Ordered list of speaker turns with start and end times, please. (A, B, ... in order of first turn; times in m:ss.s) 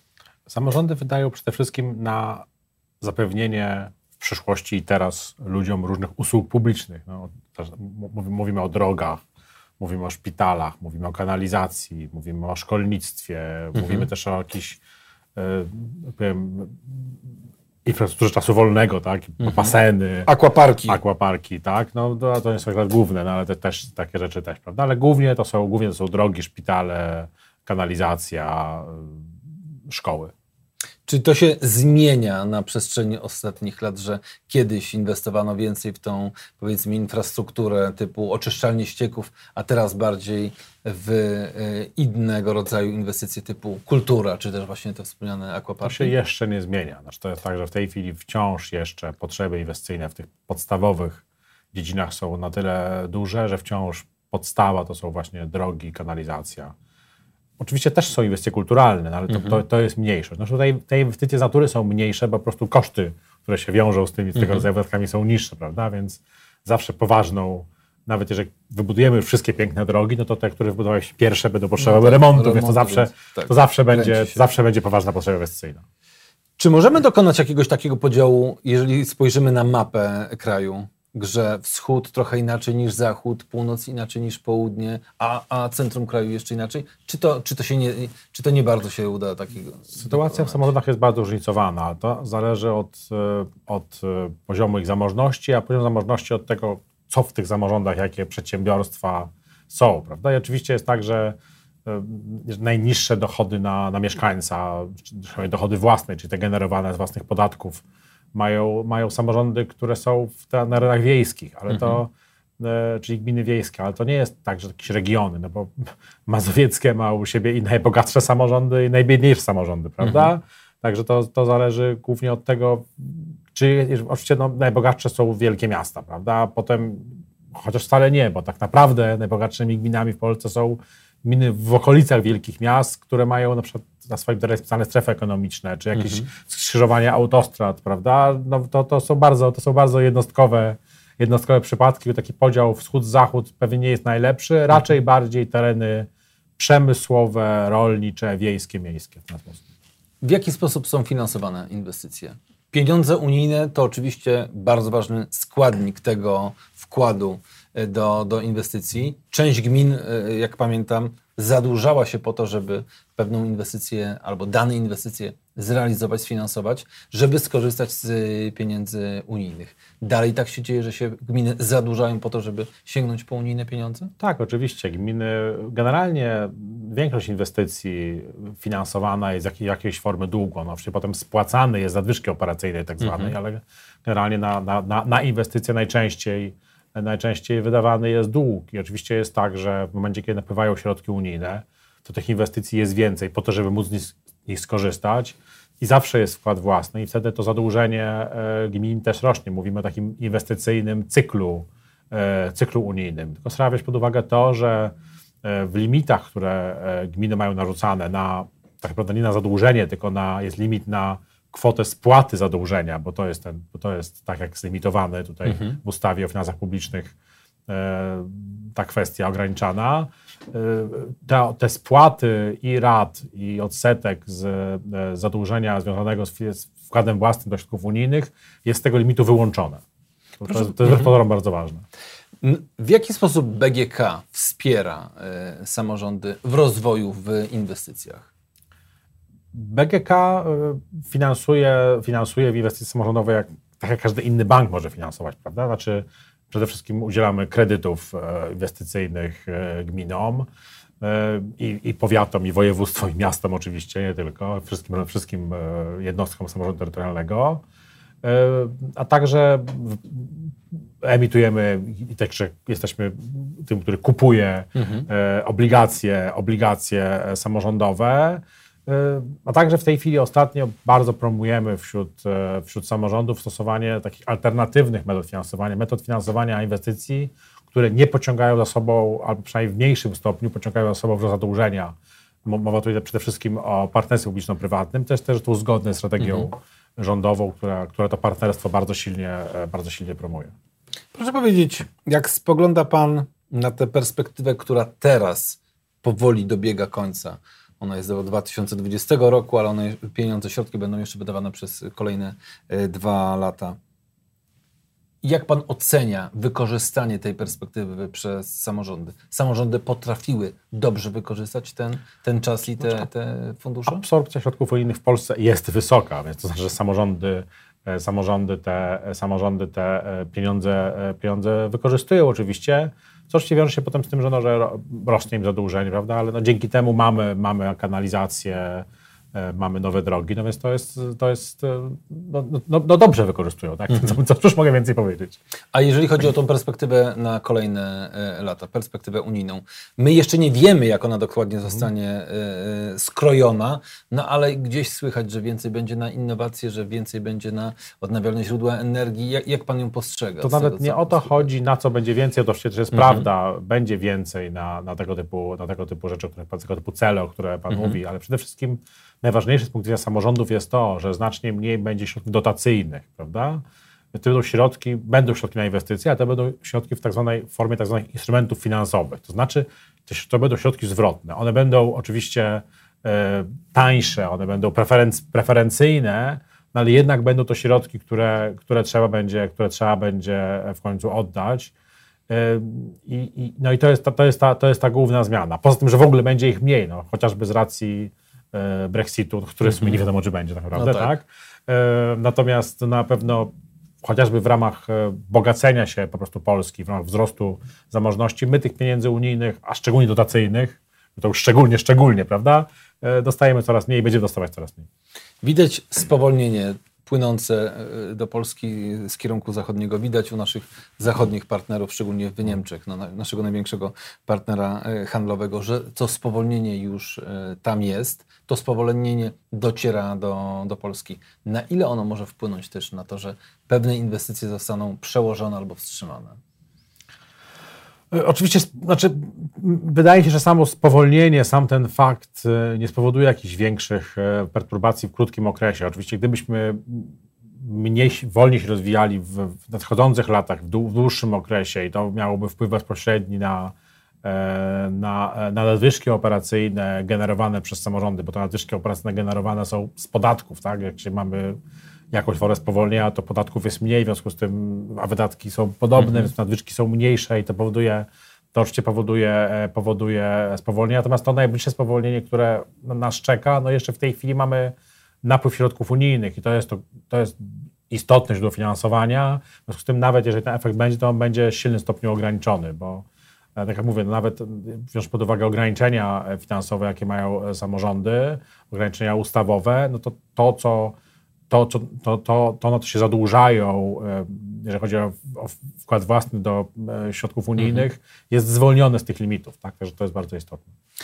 0:00.5-0:02.4 A
0:03.0-0:09.2 A
0:09.8-0:14.8 A
0:13.8-0:14.1 B
0:15.4-0:17.2 A
0:17.8-0:20.3 A
0:19.4-0:19.8 B
0:20.3-0:21.0 B
0:20.9-0:29.3 A
0:29.9-0:30.3 A
0:31.1-0:46.1 B
0:45.8-0:56.7 A
0:57.6-1:15.8 A
0:59.3-0:59.6 B
1:04.4-1:04.6 B
1:11.8-1:14.4 B
1:16.6-1:30.7 B
1:30.0-2:29.6 A
1:51.7-1:52.0 B
2:00.0-2:00.3 B
2:16.0-2:16.3 B
2:30.2-2:54.1 B
2:54.2-3:37.1 A
3:03.0-3:03.3 B
3:35.5-3:35.8 B
3:37.7-3:49.8 A
3:50.4-3:51.8 A
3:50.5-3:51.1 B
3:52.4-3:58.3 B
3:59.5-4:10.5 A
4:11.0-4:17.6 A
4:18.2-4:41.9 A
4:24.8-4:25.1 B
4:42.4-4:50.5 A
4:46.2-4:46.5 B
4:51.1-5:03.8 B
5:05.2-5:14.0 B
5:13.9-5:35.4 A
5:35.7-5:51.5 B
5:50.4-6:21.7 A
5:52.9-5:53.2 B
5:57.7-5:58.0 B
6:22.3-6:33.5 A
6:29.7-6:30.0 B
6:30.7-6:31.1 B
6:34.0-6:44.9 A
6:45.4-7:06.4 B
7:08.1-7:31.6 A
7:32.1-8:01.0 A
7:36.0-7:36.3 B
8:01.5-8:10.7 A
8:07.6-8:07.8 B